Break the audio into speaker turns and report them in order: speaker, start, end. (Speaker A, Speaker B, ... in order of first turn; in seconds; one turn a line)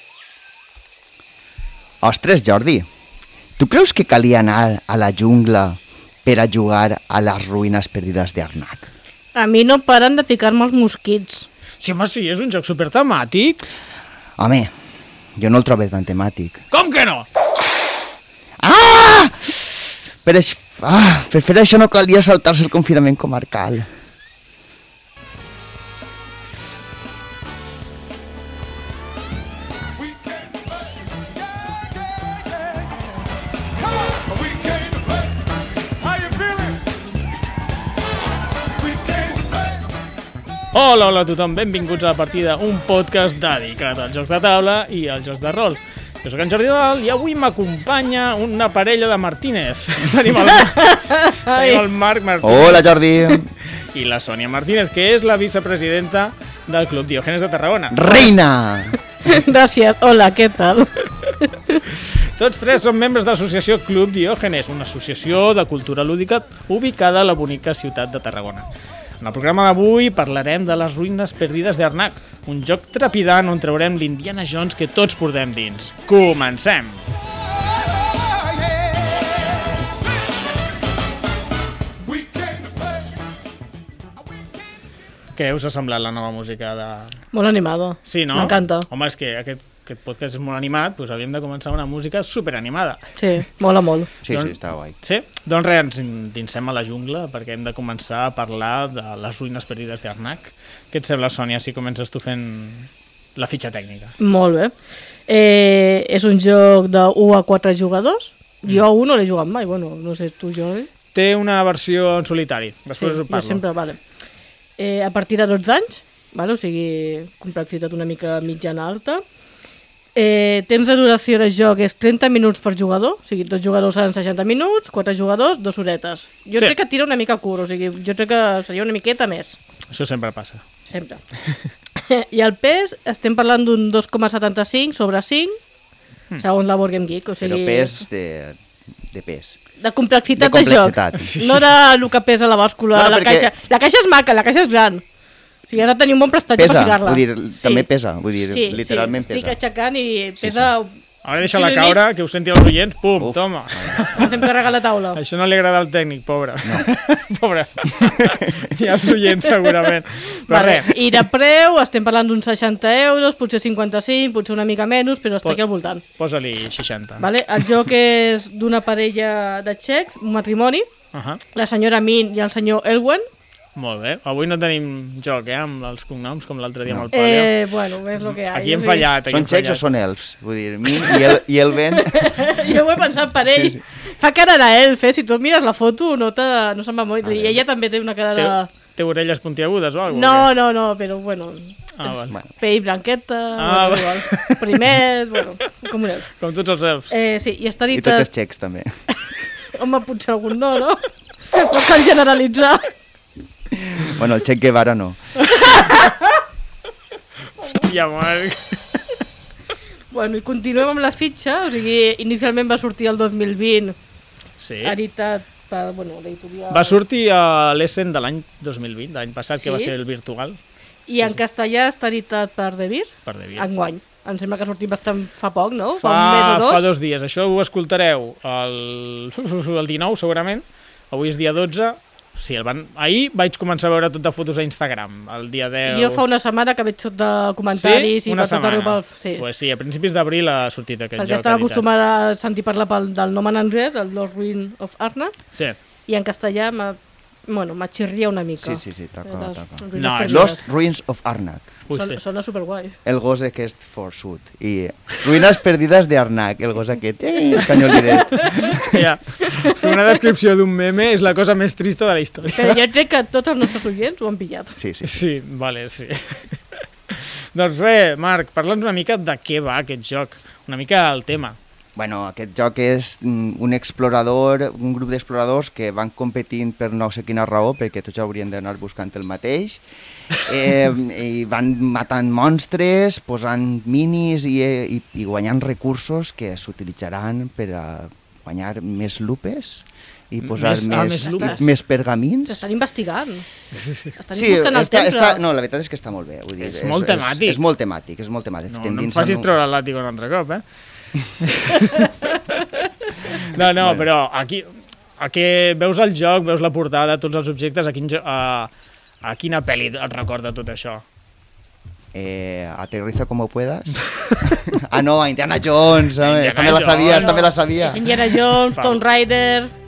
Speaker A: 2.0-2.9
Speaker A: 3.6-8.9
Speaker B: 9.3-11.5
Speaker C: 11.8-13.6
Speaker A: 14.4-14.7
Speaker A: 15.3-16.6
Speaker C: 16.7-17.3
Speaker A: 18.6-23.9
Speaker C: 34.5-34.9
Speaker C: 36.0-36.8
Speaker C: 40.7-52.9
Speaker B: 50.5-51.8
Speaker A: 52.4-53.5
Speaker C: 53.9-58.0
Speaker A: 57.9-59.0
Speaker B: 59.2-61.8
Speaker C: 62.0-68.7
Speaker C: 69.2-77.0
Speaker C: 85.3-87.2
Speaker B: 87.3-88.9
Speaker C: 88.0-93.0
Speaker B: 93.2-94.1
Speaker A: 94.2-95.0
Speaker C: 94.3-104.2
Speaker B: 104.2-104.7
Speaker B: 105.3-110.9
Speaker C: 111.1-113.6
Speaker B: 113.0-114.0
Speaker B: 114.8-119.2
Speaker B: 120.2-129.6
Speaker C: 129.9-130.6
Speaker B: 130.9-131.2
Speaker B: 132.0-135.6
Speaker B: 136.4-138.0
Speaker A: 137.4-139.6
Speaker B: 139.8-145.0
Speaker A: 140.3-141.3
Speaker C: 141.1-141.7
Speaker A: 142.9-143.5
Speaker B: 145.7-147.9
Speaker A: 146.6-149.6
Speaker B: 148.4-152.0
Speaker A: 150.4-150.7
Speaker C: 151.2-154.4
Speaker A: 153.2-154.2
Speaker B: 154.1-155.2
Speaker C: 155.1-161.0
Speaker A: 156.6-156.9
Speaker A: 158.0-158.7
Speaker B: 160.4-166.0
Speaker C: 166.2-167.3
Speaker B: 167.2-170.9
Speaker C: 171.1-171.4
Speaker B: 171.5-173.2
Speaker C: 173.8-177.5
Speaker B: 177.1-179.1
Speaker C: 178.2-179.8
Speaker A: 179.3-182.7
Speaker B: 181.0-181.3
Speaker B: 181.9-188.7
Speaker A: 183.5-183.8
Speaker A: 187.2-187.6
Speaker C: 188.3-190.5
Speaker B: 190.1-196.3
Speaker C: 192.0-192.3
Speaker C: 193.6-195.0
Speaker C: 196.4-197.1
Speaker B: 197.1-198.3
Speaker A: 197.9-199.0
Speaker B: 199.7-202.9
Speaker A: 203.8-205.2
Speaker B: 205.6-206.1
Speaker C: 207.6-209.0
Speaker B: 210.1-213.9
Speaker C: 214.6-214.9
Speaker B: 214.8-217.0
Speaker C: 216.7-220.6
Speaker B: 219.6-219.9
Speaker B: 221.1-226.9
Speaker C: 223.2-223.7
Speaker C: 226.0-236.2
Speaker B: 235.8-239.4
Speaker C: 237.7-241.8
Speaker B: 241.2-245.3
Speaker B: 246.1-250.6
Speaker A: 248.6-251.8
Speaker C: 249.9-250.6
Speaker C: 251.9-252.2
Speaker B: 251.9-253.0
Speaker A: 253.0-258.9
Speaker B: 258.2-258.7
Speaker C: 258.8-262.8
Speaker B: 259.4-259.9
Speaker B: 262.6-264.8
Speaker A: 264.8-265.2
Speaker C: 265.0-271.6
Speaker A: 271.9-292.6
Speaker C: 290.4-291.7
Speaker B: 291.2-291.6
Speaker B: 292.5-293.4
Speaker B: 294.1-295.4
Speaker A: 294.3-299.5
Speaker C: 296.6-297.6
Speaker C: 298.7-300.6
Speaker C: 301.4-308.7
Speaker A: 303.3-304.1
Speaker C: 309.2-311.0
Speaker A: 312.1-318.1
Speaker C: 314.1-314.5
Speaker C: 316.2-317.5
Speaker B: 317.1-319.7
Speaker C: 318.7-319.0